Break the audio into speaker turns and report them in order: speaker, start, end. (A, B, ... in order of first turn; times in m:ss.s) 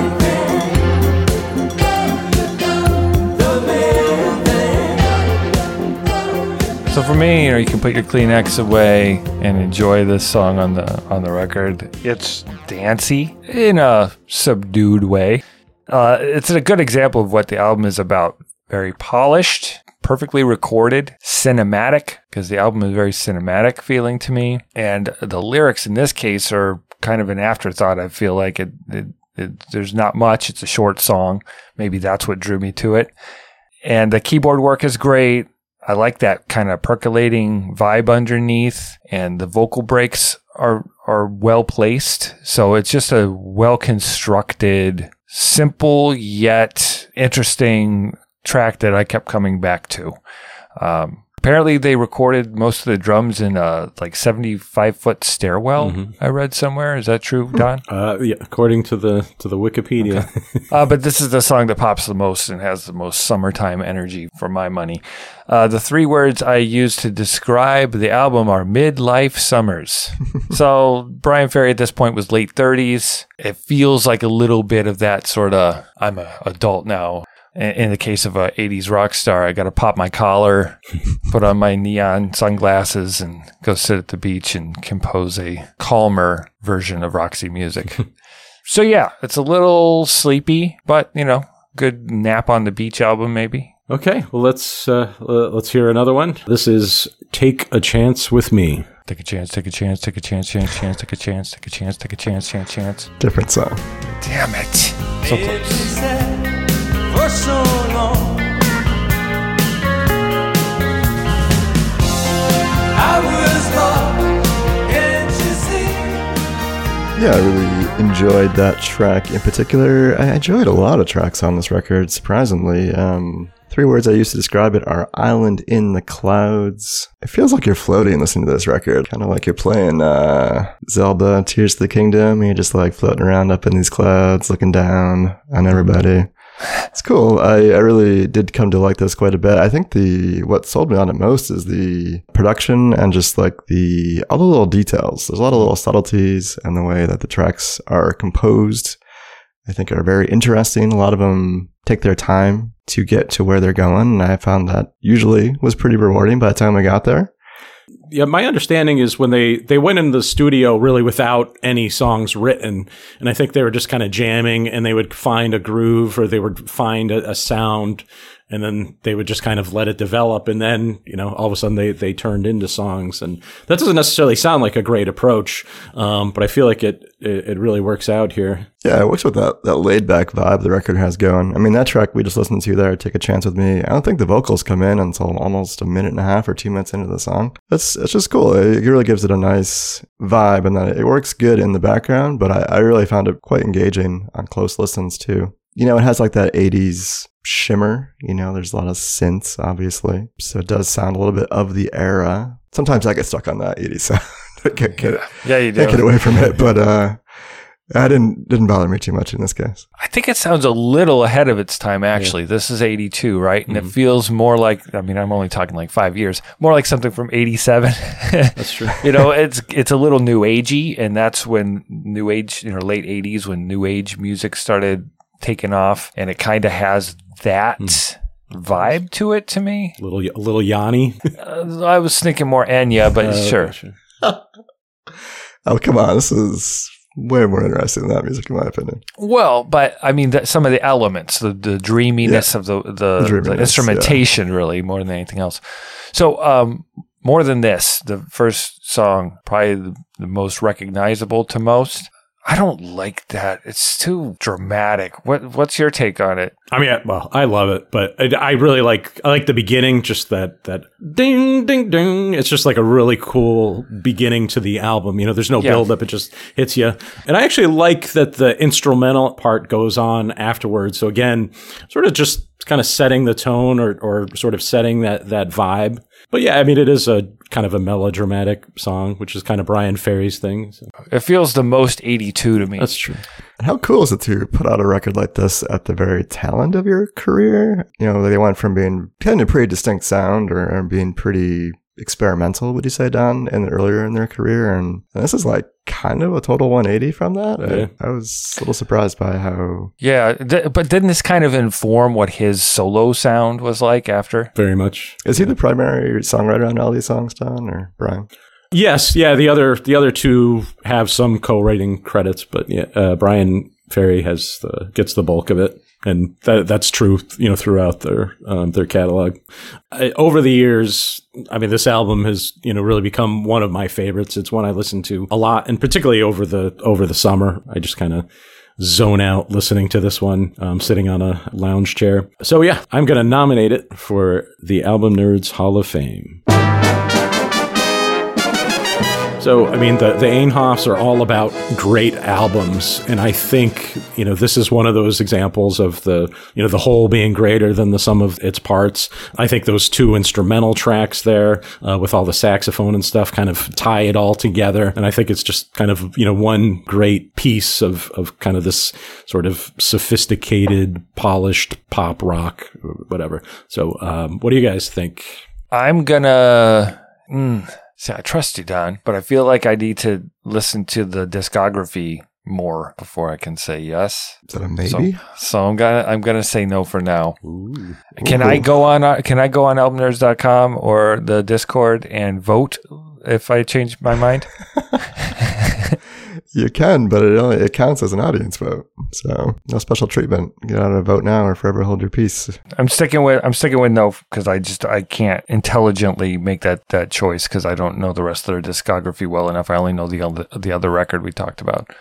0:06.9-0:33.1 A
0:33.8-0:50.2 A
0:50.8-0:57.8 A
0:55.8-0:56.1 B
0:57.9-1:00.6 B
1:00.0-1:28.0 A
1:28.6-1:33.7 A
1:33.9-1:38.8 B
1:39.1-1:43.1 A
1:43.2-1:43.8 C
1:44.2-1:45.9 A
1:45.7-1:46.3 D
1:47.1-1:48.4 D
1:53.0-1:54.2 D
1:54.9-1:56.0 D
1:57.2-2:16.3 C
2:16.9-2:29.0 C
2:29.6-2:37.3 C
2:38.1-2:58.7 B
2:58.8-3:27.2 C
3:25.2-3:26.1 A
3:27.9-3:29.9 C
3:30.0-3:50.0 A
3:33.7-3:33.9 B
3:38.6-3:39.0 B
3:50.0-3:51.2 B
3:51.4-3:53.7 A
3:53.2-3:53.9 B
3:55.6-3:59.0 C
3:59.2-4:16.5 A
4:02.2-4:02.5 C
4:03.2-4:04.2 C
4:16.7-4:40.9 B
4:25.6-4:25.8 A
4:41.1-4:42.9 A
4:42.8-4:43.2 B
4:43.6-4:59.9 C
4:57.6-4:57.9 B
5:00.0-5:04.5 A
5:04.5-5:05.5 B
5:05.2-5:08.3 C
5:08.7-5:19.4 B
5:19.9-5:28.2 B
5:28.8-5:36.4 B
5:39.4-6:05.4 B
6:05.7-6:17.4 A
6:14.5-6:15.2 C
6:17.4-6:18.0 B
6:18.2-6:18.6 C
6:18.2-6:24.5 A
6:26.5-6:32.6 C
6:32.8-6:41.9 A